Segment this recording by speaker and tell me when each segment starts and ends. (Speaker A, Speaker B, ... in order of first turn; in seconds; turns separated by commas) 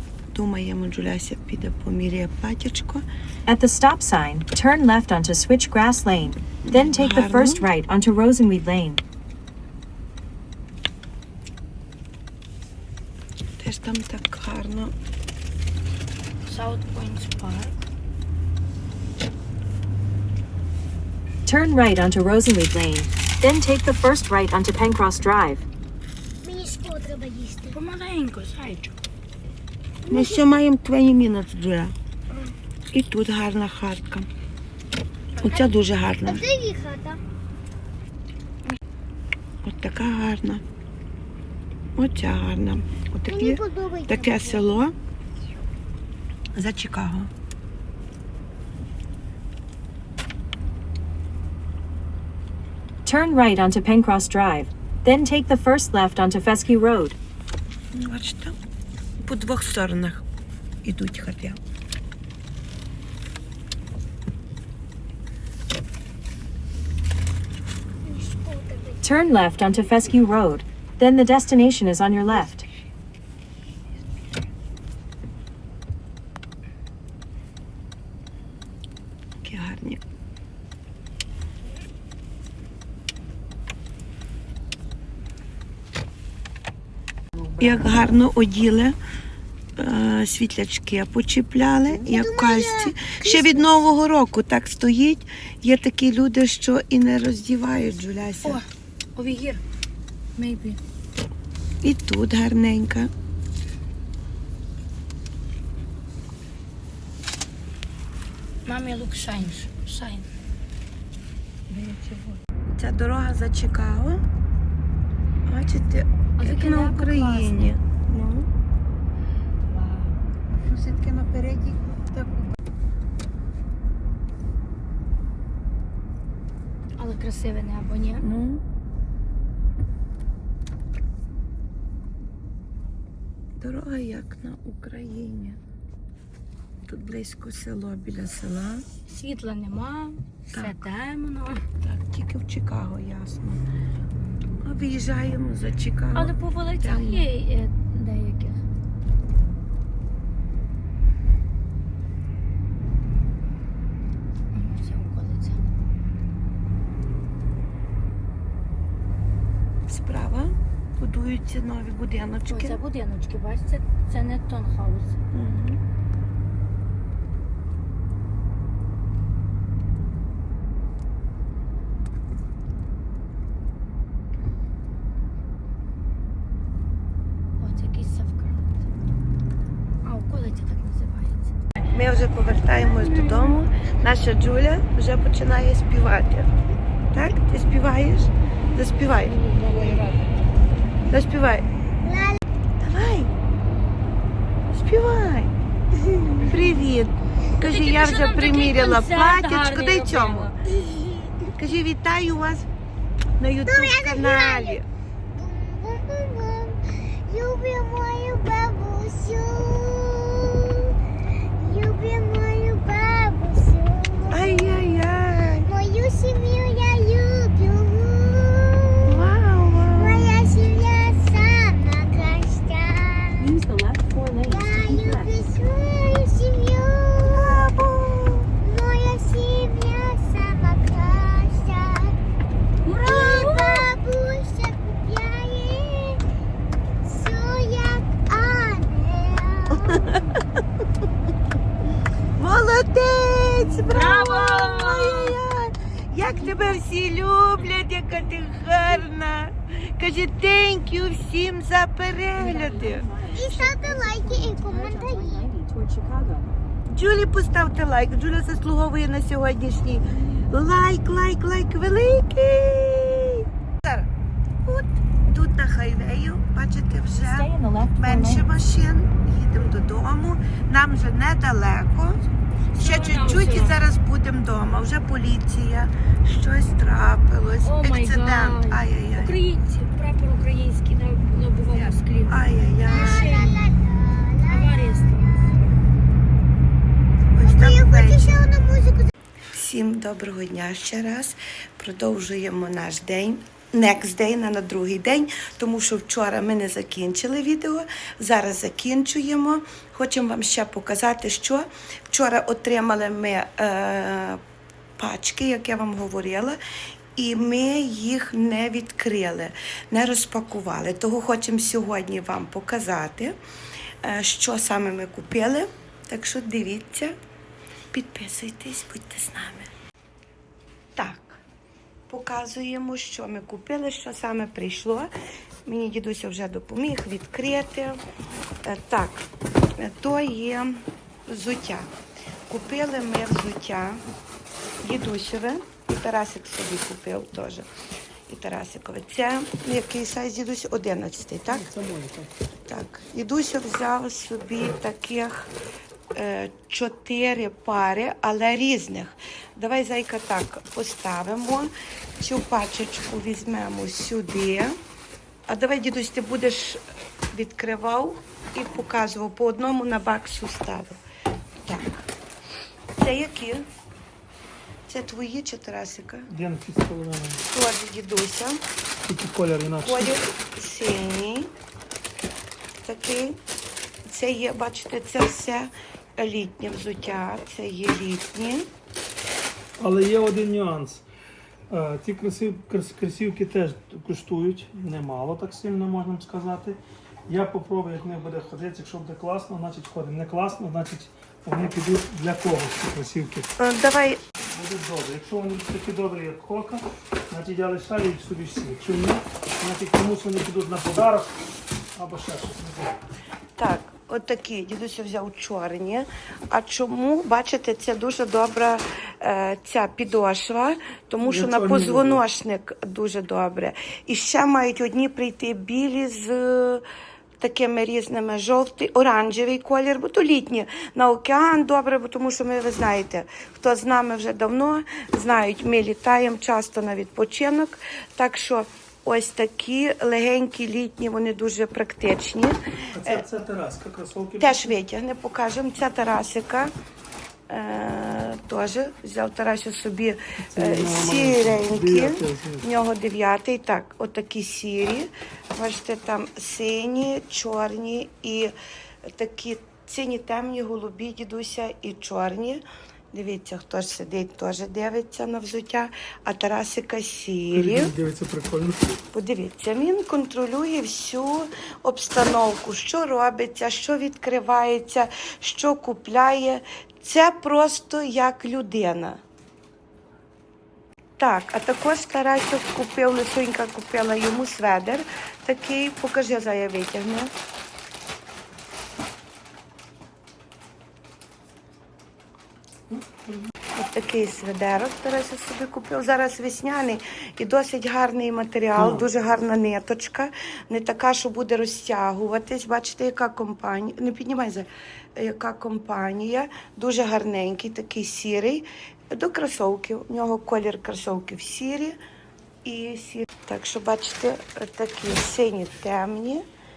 Speaker A: 0.3-3.0, Speaker B: 3.5-9.0, Speaker A: 6.6-7.7, Speaker A: 13.6-14.9, Speaker C: 16.4-17.8, Speaker B: 21.4-25.6, Speaker D: 26.4-27.8, Speaker C: 27.7-28.9, Speaker D: 30.1-30.4, Speaker A: 30.1-31.9, Speaker A: 32.9-34.3, Speaker A: 35.4-36.5, Speaker D: 36.2-37.2, Speaker A: 39.6-40.6, Speaker A: 42.0-44.9, Speaker D: 43.3-44.8, Speaker A: 46.5-47.3, Speaker B: 53.0-57.2, Speaker A: 57.9-58.6, Speaker A: 59.2-60.2, Speaker A: 60.8-61.6, Speaker D: 68.0-69.0, Speaker B: 69.0-72.7, Speaker A: 79.4-80.0, Speaker A: 87.6-89.0, Speaker A: 89.8-98.6, Speaker D: 92.0-93.4, Speaker C: 98.4-99.6, Speaker C: 100.3-100.8, Speaker A: 101.8-103.1, Speaker C: 108.7-110.3, Speaker C: 111.7-112.4, Speaker A: 112.8-114.2, Speaker A: 115.5-118.5, Speaker C: 116.4-117.8, Speaker C: 121.0-121.7, Speaker C: 127.0-128.2, Speaker A: 128.2-128.6, Speaker A: 133.6-135.6, Speaker A: 136.8-138.8, Speaker C: 139.1-141.6, Speaker A: 141.8-143.6, Speaker A: 144.6-147.2, Speaker C: 146.1-148.6, Speaker C: 154.5-155.7, Speaker A: 159.9-162.8, Speaker C: 162.5-165.2, Speaker A: 165.3-165.8, Speaker C: 177.6-178.7, Speaker C: 180.0-181.5, Speaker A: 181.9-186.5, Speaker C: 182.1-183.6, Speaker A: 187.1-189.3, Speaker C: 189.4-190.2, Speaker A: 191.1-191.7, Speaker D: 192.1-192.4, Speaker A: 192.8-193.3, Speaker A: 194.7-195.5, Speaker A: 196.4-200.5, Speaker C: 197.6-200.5, Speaker D: 200.9-201.3, Speaker A: 201.5-202.7, Speaker A: 203.4-204.8, Speaker D: 203.6-204.8, Speaker D: 205.3-215.1, Speaker A: 214.3-215.7, Speaker D: 215.6-219.1, Speaker A: 219.0-220.4, Speaker D: 220.0-223.5, Speaker B: 223.4-225.3, Speaker D: 224.5-227.6, Speaker A: 227.3-228.5, Speaker D: 228.6-232.2, Speaker C: 232.8-233.9, Speaker D: 233.0-236.2, Speaker D: 237.0-240.1, Speaker A: 239.7-240.3, Speaker A: 242.4-253.1, Speaker C: 243.9-245.3, Speaker B: 252.3-256.5, Speaker D: 253.3-255.5, Speaker A: 256.9-264.1, Speaker A: 264.6-272.2, Speaker B: 267.2-268.5, Speaker C: 272.5-273.8, Speaker A: 272.8-279.4, Speaker C: 277.6-283.8, Speaker A: 282.3-283.3, Speaker D: 282.9-285.7, Speaker C: 284.4-285.6, Speaker A: 287.3-288.4, Speaker D: 287.4-289.1, Speaker A: 289.5-304.4, Speaker A: 305.0-306.6, Speaker A: 307.1-313.4, Speaker A: 314.0-317.1, Speaker A: 317.9-319.7, Speaker A: 320.9-321.4, Speaker A: 322.1-325.1, Speaker A: 325.6-328.0, Speaker A: 328.6-329.2, Speaker A: 329.8-331.9, Speaker A: 332.5-334.0, Speaker A: 334.8-337.7, Speaker A: 338.3-341.7, Speaker E: 341.5-342.3, Speaker A: 342.7-345.5, Speaker A: 346.1-354.7, Speaker A: 355.5-356.8, Speaker A: 357.3-361.0, Speaker A: 361.6-362.1, Speaker A: 363.0-363.6, Speaker A: 364.9-366.3, Speaker E: 366.3-367.4, Speaker A: 367.5-368.6, Speaker E: 369.1-370.2, Speaker A: 369.8-371.5, Speaker A: 372.8-373.4, Speaker A: 374.1-378.7, Speaker E: 379.8-381.0, Speaker E: 381.7-393.5, Speaker A: 393.6-394.2, Speaker E: 394.4-401.4, Speaker E: 401.9-403.0, Speaker A: 403.6-416.8, Speaker E: 411.2-412.2, Speaker A: 417.4-433.2, Speaker E: 432.9-434.8, Speaker A: 434.4-436.7, Speaker A: 437.5-448.5, Speaker E: 440.5-442.7, Speaker A: 449.1-452.6, Speaker A: 453.1-457.9, Speaker E: 457.5-458.9, Speaker A: 459.1-469.2, Speaker A: 471.2-477.3, Speaker E: 482.9-483.5, Speaker A: 483.8-502.0, Speaker E: 488.7-489.1, Speaker A: 502.6-506.4